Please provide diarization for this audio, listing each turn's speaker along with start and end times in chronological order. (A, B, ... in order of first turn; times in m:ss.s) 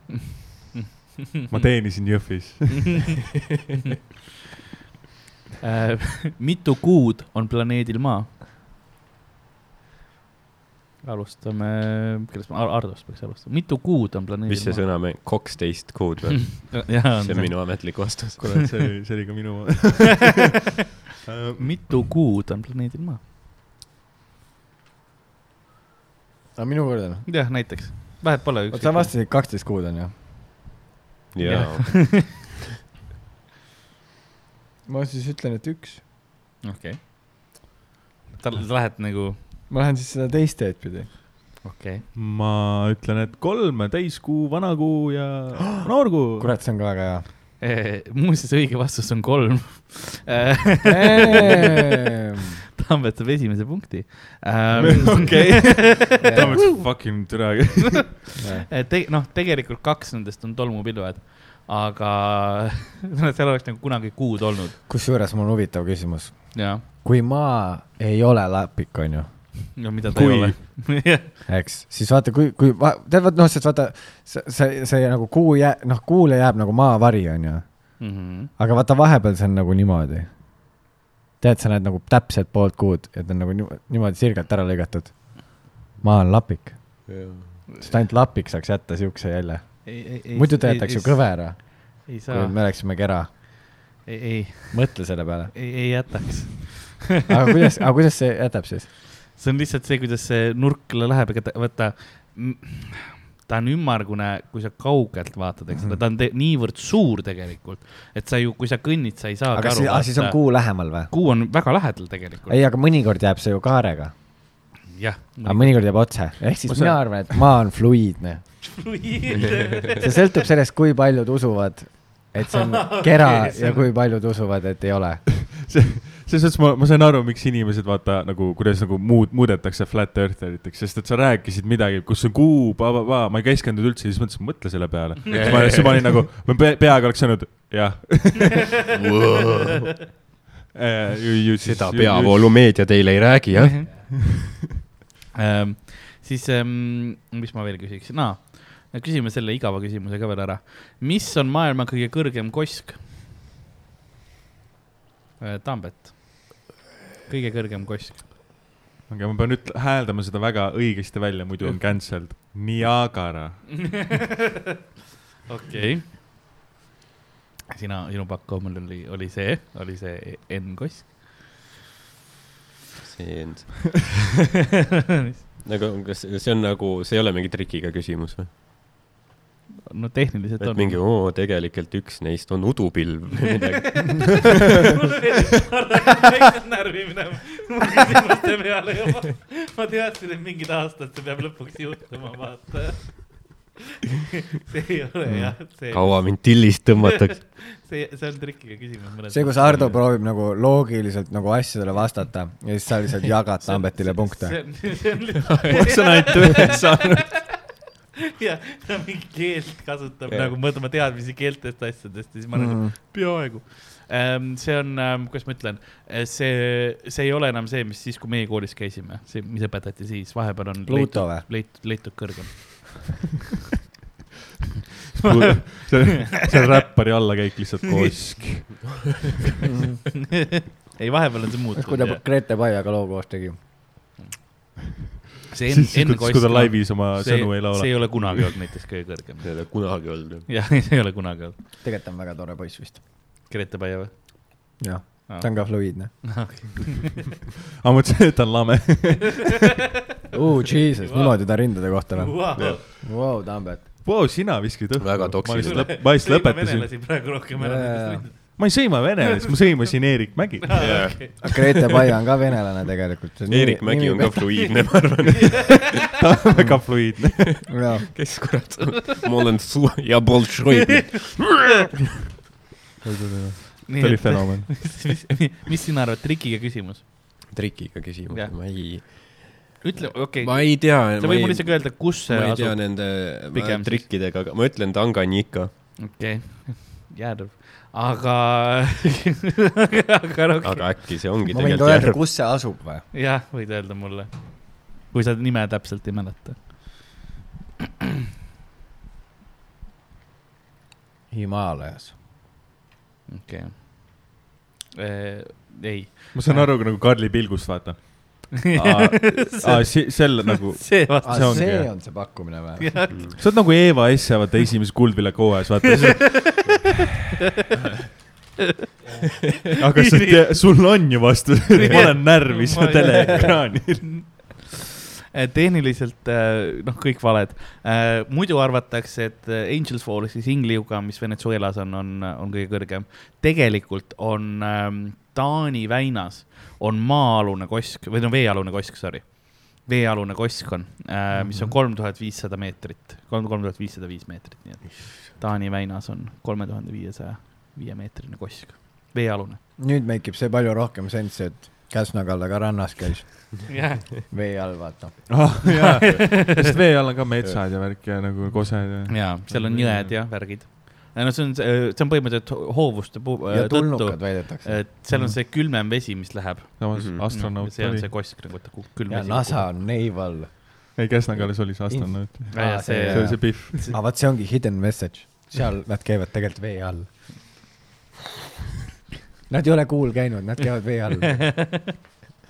0:00.7-0:01.5 A
0:01.5-0:03.1 B
0:05.6-0:08.3 A
0:11.0-0:14.8 A
0:14.5-0:18.5 C
0:16.5-0:18.0 A
0:18.4-0:20.4 B
0:21.2-0:22.0 B
0:21.6-0:23.2 A
0:26.6-0:27.3 D
0:27.3-0:29.1 A
0:28.7-0:30.1 D
0:31.3-0:32.4 C
0:31.4-0:32.3 A
0:34.9-0:36.0 D
0:36.6-0:37.0 A
0:38.4-0:39.4 A
0:39.7-0:41.1 D
0:41.6-0:42.1 A
0:42.1-0:46.5 B
0:46.2-0:47.2 D
0:47.6-0:51.7 A
0:50.9-0:52.6 D
0:52.8-0:57.1 A
0:54.8-0:58.2 B
0:54.8-0:55.5 D
0:56.2-0:56.6 D
0:58.4-0:58.7 D
0:58.7-1:04.8 A
1:04.9-1:09.3 D
1:06.5-1:06.8 A
1:09.8-1:11.3 A
1:10.1-1:10.6 B
1:11.5-1:20.3 D
1:18.0-1:18.5 A
1:21.4-1:26.8 D
1:27.1-1:27.6 C
1:27.8-1:33.3 D
1:29.8-1:32.6 A
1:34.0-1:37.3 A
1:34.7-1:35.6 D
1:37.3-1:38.9 D
1:39.3-1:52.6 A
1:45.7-1:46.0 D
1:49.5-1:51.1 D
1:52.5-1:54.1 D
1:54.9-1:55.9 A
1:55.4-1:58.7 D
1:56.7-1:57.2 B
1:58.8-2:00.2 A
1:59.9-2:05.2 D
2:02.4-2:03.9 A
2:05.5-2:18.9 B
2:15.3-2:16.2 C
2:18.9-2:19.8 C
2:20.7-2:22.5 B
2:21.6-2:24.0 C
2:23.6-2:23.9 A
2:25.3-2:33.0 A
2:35.4-2:36.7 A
2:37.3-2:38.2 A
2:39.1-2:44.1 B
2:43.9-2:44.5 A
2:45.5-2:46.1 A
2:47.7-2:51.2 A
2:53.0-2:54.1 C
2:55.6-2:58.5 C
2:59.9-3:01.0 A
3:00.6-3:04.8 C
3:03.5-3:13.6 A
3:14.6-3:16.6 A
3:15.3-3:17.4 C
3:17.4-3:20.0 A
3:19.3-3:24.6 D
3:23.6-3:27.5 A
3:25.7-3:27.4 B
3:28.4-3:43.1 A
3:30.3-3:30.5 C
3:32.5-3:32.9 D
3:40.9-3:41.5 D
3:45.2-3:49.0 B
3:45.2-3:46.0 A
3:49.6-3:50.0 D
3:50.5-3:52.2 A
3:51.8-3:53.6 D
3:55.5-3:59.9 A
3:55.7-3:58.6 B
3:59.4-4:00.5 C
4:00.5-4:01.6 A
4:01.8-4:03.0 D
4:03.5-4:04.3 A
4:04.8-4:06.1 D
4:05.3-4:07.2 A
4:07.8-4:09.7 B
4:10.3-4:13.9 D
4:11.0-4:12.8 A
4:14.0-4:16.9 B
4:15.0-4:16.0 C
4:15.6-4:18.9 A
4:17.6-4:18.3 D
4:18.6-4:21.2 B
4:20.6-4:21.6 A
4:20.8-4:21.5 C
4:21.4-4:24.6 D
4:23.5-4:26.0 C
4:24.6-4:26.0 A
4:26.0-4:27.7 B
4:26.6-4:26.8 D
4:27.7-4:28.1 D
4:28.1-4:31.9 C
4:30.9-4:31.7 A
4:33.0-4:34.9 B
4:33.9-4:37.0 A
4:37.5-4:45.7 C
4:38.3-4:39.1 A
4:39.8-4:44.1 A
4:46.0-4:51.0 A
4:50.6-4:52.2 C
4:51.5-4:53.0 D
4:53.1-4:57.0 A
5:01.3-5:02.1 D
5:03.3-5:04.4 A
5:05.0-5:06.7 A
5:06.3-5:11.9 B
5:08.7-5:11.9 A
5:11.2-5:13.2 D
5:12.8-5:13.3 A
5:13.4-5:16.8 B
5:16.1-5:17.0 A
5:19.7-5:20.7 A
5:19.8-5:24.2 B
5:21.7-5:24.8 A
5:25.3-5:49.6 A
5:41.4-5:41.7 D
5:49.8-5:53.8 D
5:53.7-5:54.0 A
5:54.3-5:55.4 D
5:55.3-6:00.2 B
5:55.7-5:56.4 A
5:59.0-6:09.7 A
6:03.5-6:04.9 D
6:06.8-6:08.1 B
6:06.9-6:07.2 C
6:09.1-6:11.0 D
6:11.0-6:13.9 B
6:11.9-6:17.2 D
6:12.5-6:13.9 A
6:19.5-6:21.4 D
6:21.4-6:21.9 A